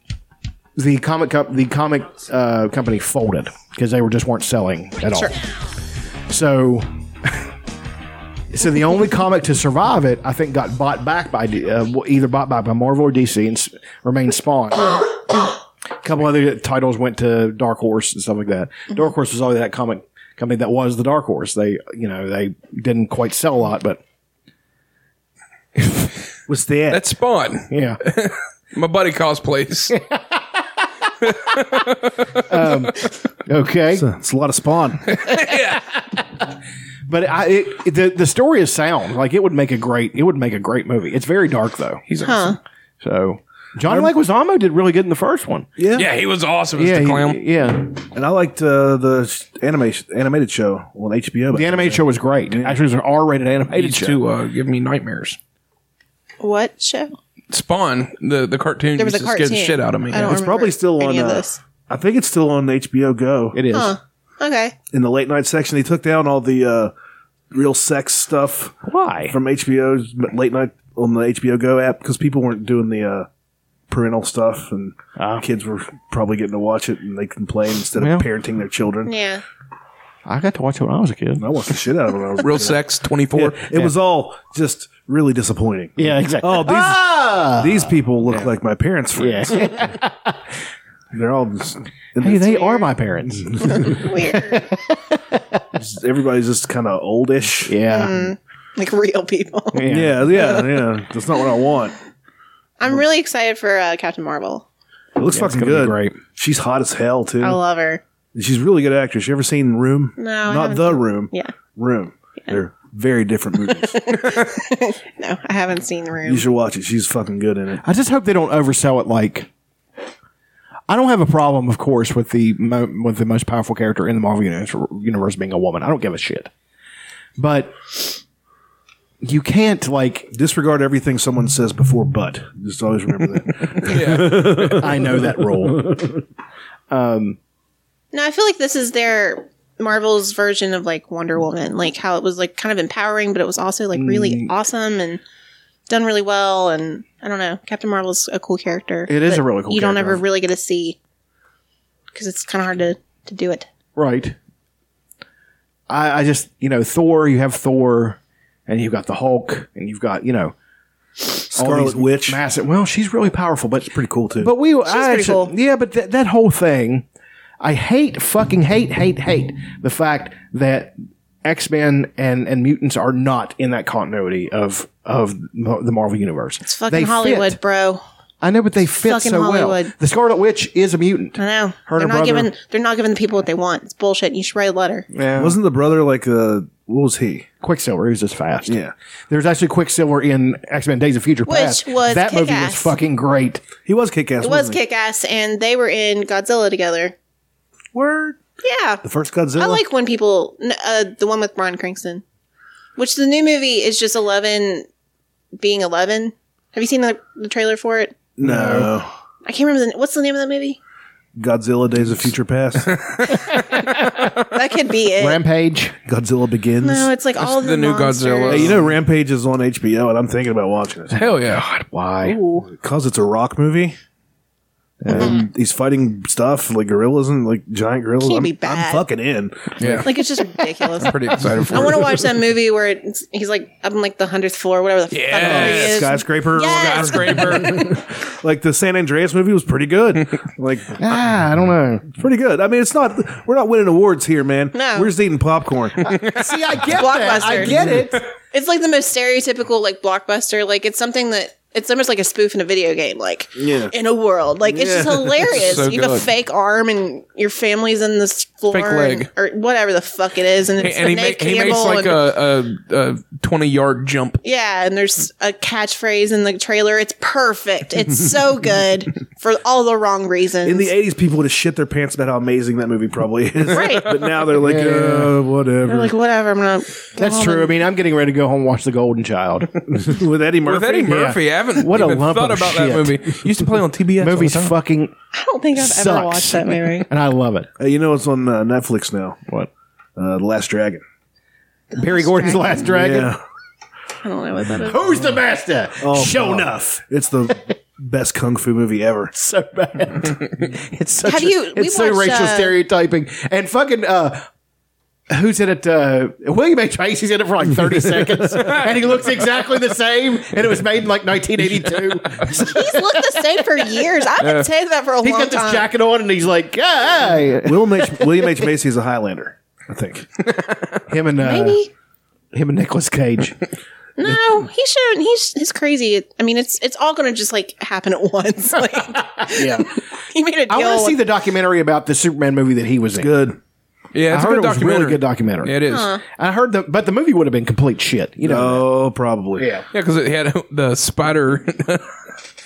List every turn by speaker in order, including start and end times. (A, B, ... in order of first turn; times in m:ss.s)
0:00.8-0:05.3 A
0:06.3-0:07.4 A
0:08.5-0:15.2 A
0:16.0-0:24.0 A
0:26.5-0:27.0 B
0:26.9-0:30.0 C
0:27.7-0:28.0 A
0:29.9-0:30.2 A
0:31.2-0:32.4 C
0:32.4-0:34.0 A
0:33.9-0:35.1 B
0:35.1-0:35.8 C
0:35.5-0:36.0 A
0:37.1-0:42.0 A
0:42.1-0:42.5 C
0:42.2-0:42.6 D
0:43.0-0:45.7 A
0:43.8-0:44.1 B
0:45.8-0:46.1 B
0:45.9-0:47.4 C
0:46.7-0:48.0 A
0:48.1-0:52.8 B
0:51.5-0:54.2 A
0:53.7-0:55.4 C
0:56.4-0:57.1 D
0:57.5-1:00.3 C
0:59.0-1:01.6 D
1:00.1-1:03.6 B
1:03.5-1:04.0 A
1:03.7-1:04.7 D
1:04.9-1:06.9 B
1:07.5-1:08.8 B
1:08.8-1:09.4 A
1:09.3-1:13.3 B
1:13.9-1:19.1 B
1:15.2-1:15.4 A
1:18.0-1:18.2 A
1:19.0-1:19.4 D
1:20.2-1:21.5 A
1:21.4-1:29.9 B
1:22.4-1:23.6 C
1:26.0-1:28.5 A
1:29.2-1:30.4 A
1:31.1-1:34.1 B
1:32.2-1:35.6 A
1:33.6-1:34.6 D
1:35.8-1:37.8 B
1:37.6-1:38.3 A
1:37.9-1:39.8 D
1:39.7-1:40.6 A
1:39.9-1:41.9 B
1:40.3-1:40.6 D
1:42.8-1:44.7 D
1:45.2-1:47.6 B
1:45.3-1:46.2 A
1:47.4-1:48.0 D
1:48.3-1:54.0 B
1:50.2-1:51.5 D
1:53.9-1:56.5 D
1:56.2-1:57.8 B
1:57.8-1:59.5 A
2:00.9-2:06.5 A
2:07.4-2:08.2 A
2:09.2-2:10.3 A
2:10.3-2:16.2 B
2:13.8-2:14.7 C
2:14.2-2:16.1 A
2:16.9-2:17.4 A
2:18.1-2:25.2 D
2:23.9-2:24.5 A
2:25.9-2:31.0 D
2:29.1-2:30.2 A
2:32.1-2:33.7 D
2:34.0-2:34.3 A
2:35.9-2:40.5 A
2:41.5-2:42.4 B
2:41.6-2:47.0 A
2:43.9-2:44.5 B
2:44.8-2:45.5 D
2:47.6-2:57.6 A
2:56.6-2:58.0 D
2:58.4-3:02.5 A
2:59.0-2:59.9 D
3:01.4-3:05.0 D
3:05.1-3:05.6 A
3:05.4-3:07.5 B
3:07.6-3:08.8 A
3:08.7-3:08.9 B
3:09.3-3:13.6 A
3:11.5-3:12.9 D
3:13.8-3:14.8 B
3:14.4-3:17.1 D
3:17.9-3:18.4 B
3:18.6-3:19.0 D
3:19.0-3:19.8 B
3:19.6-3:22.2 D
3:23.0-3:24.9 D
3:25.6-3:28.1 D
3:28.4-3:29.1 B
3:28.4-3:28.9 A
3:29.4-3:30.8 D
3:31.3-3:33.0 B
3:33.4-3:34.3 A
3:34.5-3:35.4 D
3:35.2-3:36.0 A
3:36.0-3:37.1 B
3:36.8-3:38.8 D
3:37.4-3:38.8 C
3:38.5-3:41.2 B
3:41.1-3:42.4 A
3:41.2-3:41.6 C
3:42.2-3:42.6 D
3:42.6-3:44.0 B
3:45.0-3:45.4 A
3:45.1-3:50.0 B
3:48.2-3:49.0 D
3:49.8-3:50.1 C
3:50.0-3:51.2 D
3:51.0-3:52.2 C
3:51.7-3:57.7 D
3:55.1-3:57.8 C
3:55.4-4:01.2 B
4:01.0-4:02.1 A
4:02.1-4:06.1 B
4:04.7-4:05.1 D
4:06.0-4:08.2 A
4:06.9-4:07.8 D
4:07.6-4:08.0 B
4:08.5-4:22.2 D
4:13.6-4:13.9 B
4:14.6-4:15.7 B
4:15.5-4:16.3 C
4:18.7-4:19.3 C
4:20.8-4:24.4 C
4:24.4-4:30.9 D
4:30.6-4:36.1 B
4:33.7-4:34.1 D
4:34.6-4:35.3 A
4:35.8-4:37.8 D
4:37.2-4:40.1 A
4:39.9-4:41.3 B
4:40.6-4:44.8 C
4:41.1-4:43.4 A
4:44.2-4:45.1 A
4:45.3-4:47.1 D
4:45.8-4:47.7 A
4:47.8-4:49.4 B
4:50.2-4:51.0 B
4:51.9-4:52.9 D
4:51.9-4:53.3 A
4:52.8-4:53.4 B
4:54.2-4:55.2 D
4:54.7-4:57.0 A
4:56.0-4:59.3 B
4:59.3-5:04.4 A
5:01.2-5:02.8 D
5:05.3-5:13.2 A
5:12.5-5:15.9 D
5:15.2-5:18.7 A
5:17.6-5:20.3 B
5:20.4-5:20.8 C
5:21.1-5:21.9 A
5:21.4-5:21.9 D
5:22.5-5:23.6 A
5:24.2-5:31.2 D
5:29.3-5:30.0 A
5:30.7-5:33.3 A
5:33.1-5:33.6 B
5:34.1-5:36.1 C
5:34.3-5:38.8 A
5:35.9-5:36.2 D
5:38.4-5:39.7 B
5:39.6-5:39.8 A
5:39.9-5:42.1 C